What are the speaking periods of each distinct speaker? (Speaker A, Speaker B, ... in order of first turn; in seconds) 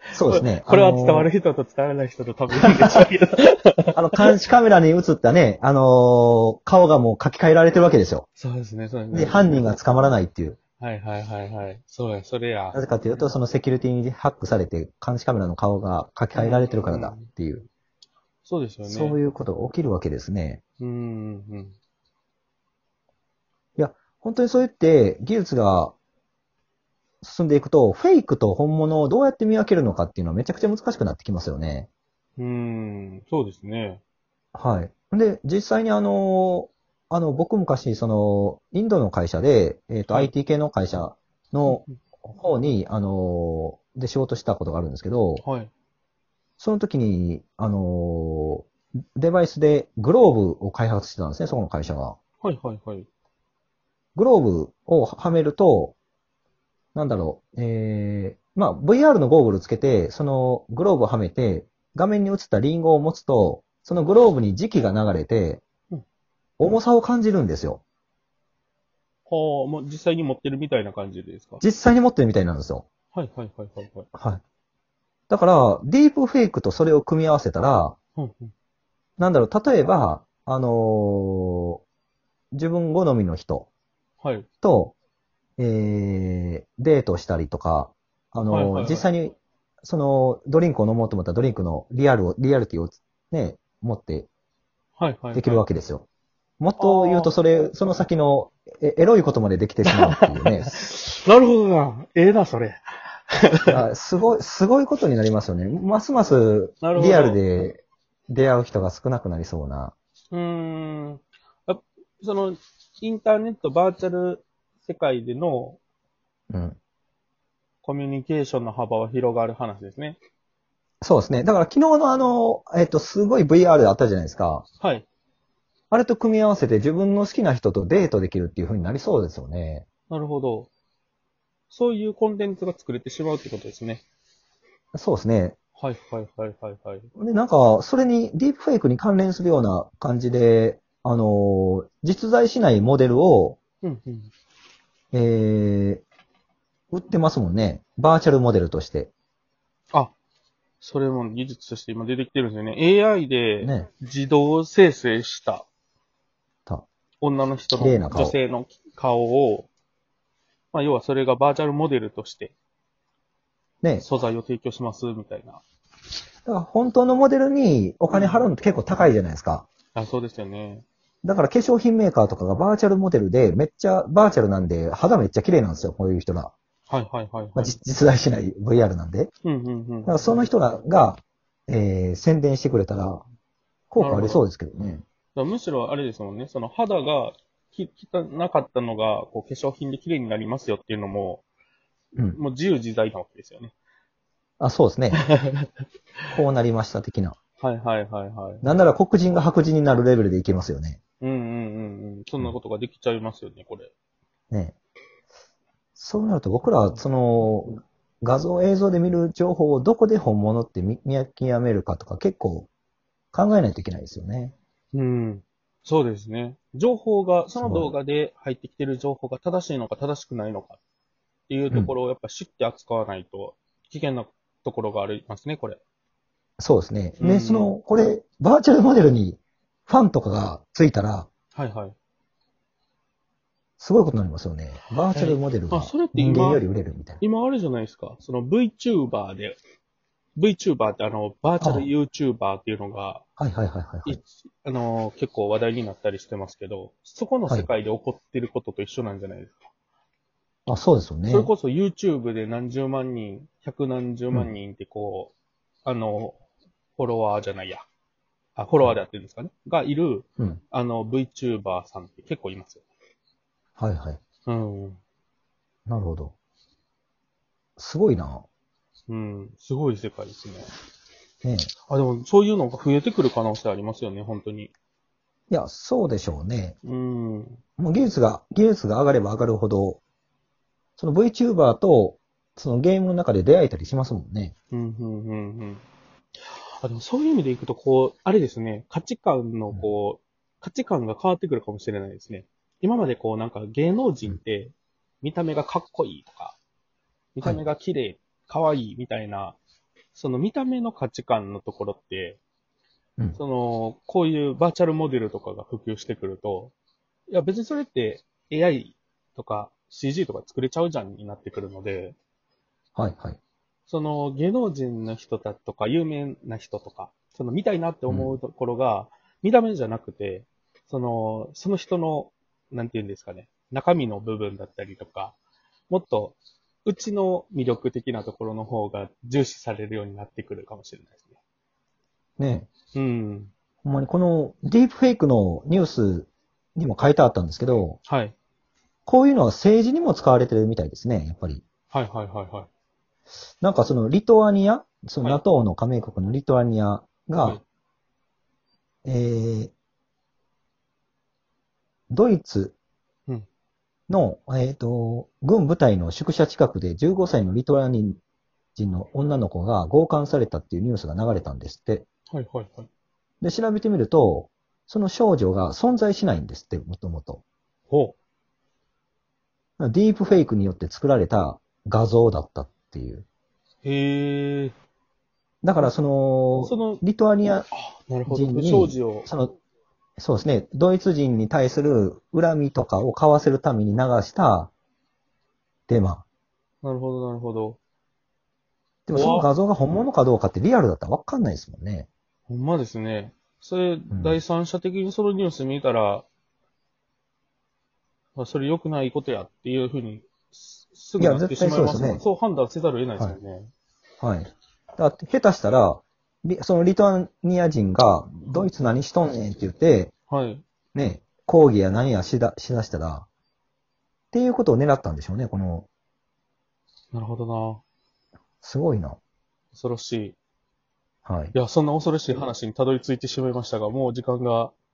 Speaker A: 0.1-1.3, 2.6-3.0, 3.9-8.2, 9.1-10.6, 12.7-17.6, 18.8-20.6, 23.8-25.9, 27.2-31.9, 34.5-45.4, 46.6-52.2, 54.1-55.9, 56.9-65.6, 66.6-67.8, 71.6-72.8, 74.1-74.4, 75.3-78.0, 79.2-81.8, 82.5-83.7, 84.6-84.9, 85.6-94.3, 95.3-96.0, 96.6-100.8, 103.7-109.9, 116.5-116.8, 121.0-124.7, 125.9-129.8, 134.9-135.6, 137.2-143.6, 145.1-146.0, 146.9-149.1, 153.6-153.9, 157.7-158.3, 166.4-169.7, 171.2-176.5, 177.5-179.3, 180.1-183.2, 183.9-185.0, 194.6-195.3, 196.3-197.4, 198.6-201.0, 205.9-212.7, 213.3-214.5, 217.6-217.9, 226.6-231.3, 233.8-237.2, 241.6-241.9, 243.4-244.2, 250.7-251.5, 263.8-264.2, 265.9-266.3, 267.8-268.4, 271.4-271.7, 275.5-276.8, 277.8-280.0, 281.0-284.5, 312.9-313.4, 318.1-318.4, 332.4-332.7, 333.8-338.0, 339.1-341.6, 343.6-347.6, 349.0-349.7, 352.1-352.7, 354.1-358.2, 358.8-362.0, 363.4-367.4, 369.8-373.2, 375.6-377.7, 378.3-379.6, 380.2-384.7, 385.9-386.2, 389.1-392.1, 394.1-394.4, 401.2-402.2, 404.2-410.1, 410.9-413.2, 414.3-415.9, 418.6-419.2, 421.2-421.5
Speaker B: 0.3-4.3, 8.3-9.6, 10.8-12.8, 16.3-17.3, 18.4-19.2, 20.8-21.7, 32.4-34.0, 45.4-45.7, 52.4-53.1, 69.3-71.6, 73.1-74.1, 78.2-78.5, 84.2-84.5, 88.5-89.0, 95.0-95.6, 96.8-97.3, 99.9-103.8, 106.8-107.4, 110.3-115.8, 117.8-120.2, 124.8-125.0, 130.1-130.7, 131.7-134.0, 135.8-137.1, 143.8-144.3, 150.8-155.7, 157.2-159.7, 160.7-162.5, 164.0-165.6, 168.1-168.5, 169.9-170.8, 176.9-177.7, 179.4-180.1, 184.0-184.4, 185.3-191.4, 192.3-193.7, 195.2-195.7, 197.6-198.6, 201.2-203.9, 214.9-220.8, 221.5-225.8, 227.2-227.7, 231.5-231.9, 235.1-236.6, 237.2-239.6, 240.4-243.2, 244.1-249.6, 251.3-255.3, 255.8-256.4, 257.0-257.8, 258.6-262.8, 264.4-265.0, 269.1-270.7, 271.9-274.7, 276.8-277.6, 284.7-285.8, 286.4-296.6, 297.3-299.6, 300.1-302.4, 303.4-306.7, 307.3-312.1, 313.9-325.4, 325.9-331.2, 332.9-333.5, 338.1-338.3, 341.9-342.7, 362.3-362.9, 367.9-368.1, 373.8-374.7, 376.6-377.0, 377.7-379.3, 386.8-387.8, 389.1-389.5, 392.5-396.2, 398.4-403.7, 410.3-410.6, 417.1-417.8, 419.7-420.4, 421.5-424.7